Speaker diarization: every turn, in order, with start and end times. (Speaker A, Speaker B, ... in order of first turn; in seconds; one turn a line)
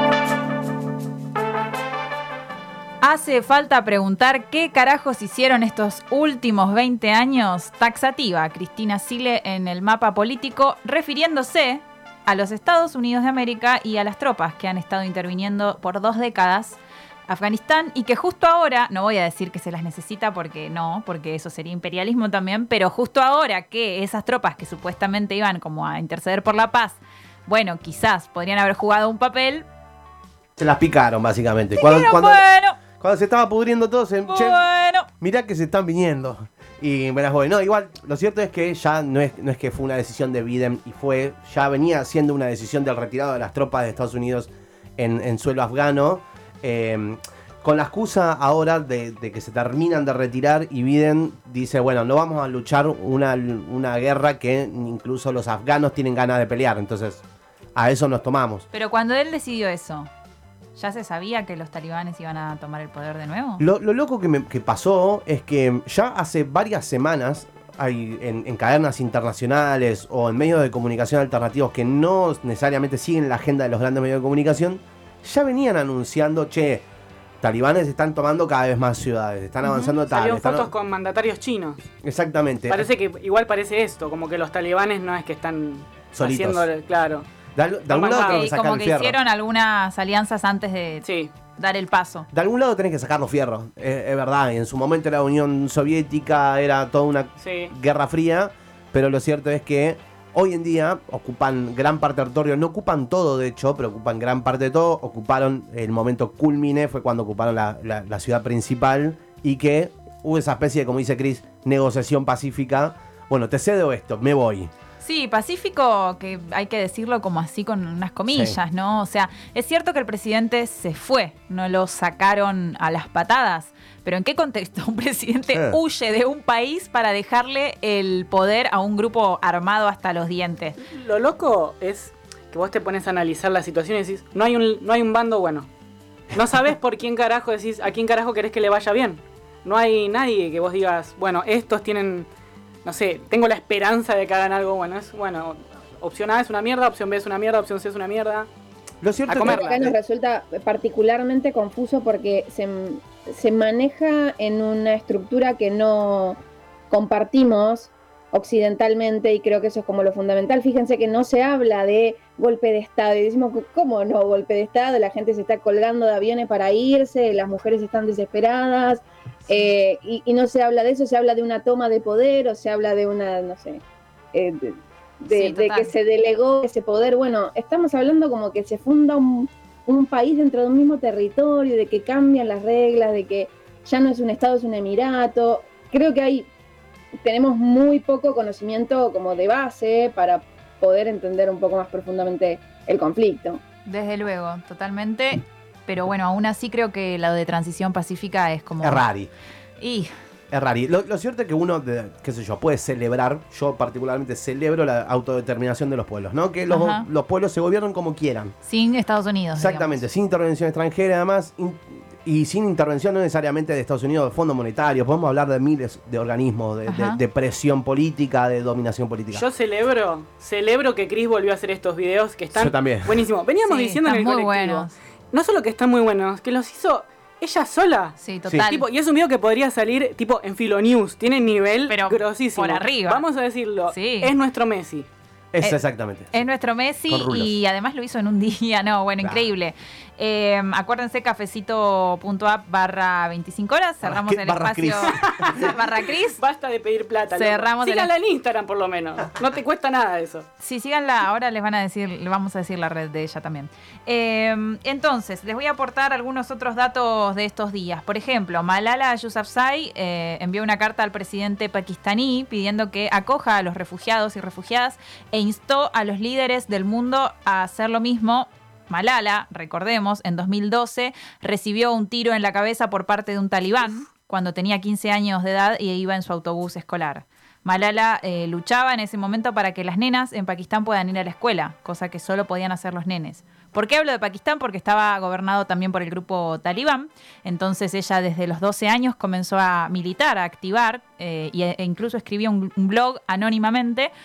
Speaker A: 3.0-29.6
Speaker B: 30.6-34.6
Speaker A: 31.8-32.8
Speaker A: 34.3-35.1
Speaker B: 35.2-57.2
Speaker B: 57.8-58.6
Speaker A: 58.7-60.1
Speaker A: 60.7-63.6
Speaker B: 63.6-76.8
Speaker B: 77.4-80.7
Speaker A: 79.6-79.9
Speaker C: 80.0-81.9
Speaker B: 82.0-82.8
Speaker C: 82.7-87.3
Speaker B: 86.1-86.6
Speaker B: 87.5-89.2
Speaker C: 87.9-88.5
Speaker A: 88.1-92.3
Speaker C: 91.0-91.3
Speaker B: 92.3-114.7
Speaker C: 97.4-97.7
Speaker A: 115.0-130.8
Speaker B: 118.3-118.6
Speaker C: 130.8-135.7
Speaker C: 136.3-142.3
Speaker C: 142.8-148.5
Speaker B: 149.0-149.9
Speaker C: 149.3-149.9
Speaker D: 149.4-156.4
Speaker D: 156.9-173.8
Speaker D: 174.3-186.5
Speaker A: 175.3-175.9
Speaker D: 187.2-193.6
Speaker A: 193.8-199.0
Speaker B: 198.8-199.3
Speaker A: 199.8-200.1
Speaker B: 200.5-208.5
Speaker A: 206.7-207.1
Speaker A: 208.6-210.0
Speaker B: 209.5-219.4
Speaker A: 216.9-217.2
Speaker C: 219.3-235.1
Speaker B: 222.5-223.2
Speaker A: 223.6-224.9
Speaker A: 228.2-228.8
Speaker A: 231.9-233.2
Speaker A: 233.9-234.3
Speaker B: 235.5-236.4
Speaker A: 236.3-246.4
Speaker B: 237.1-237.5
Speaker B: 239.2-239.5
Speaker B: 244.0-245.6
Speaker C: 245.1-245.8
Speaker C: 246.3-250.4
Speaker A: 247.3-248.1
Speaker A: 250.6-294.1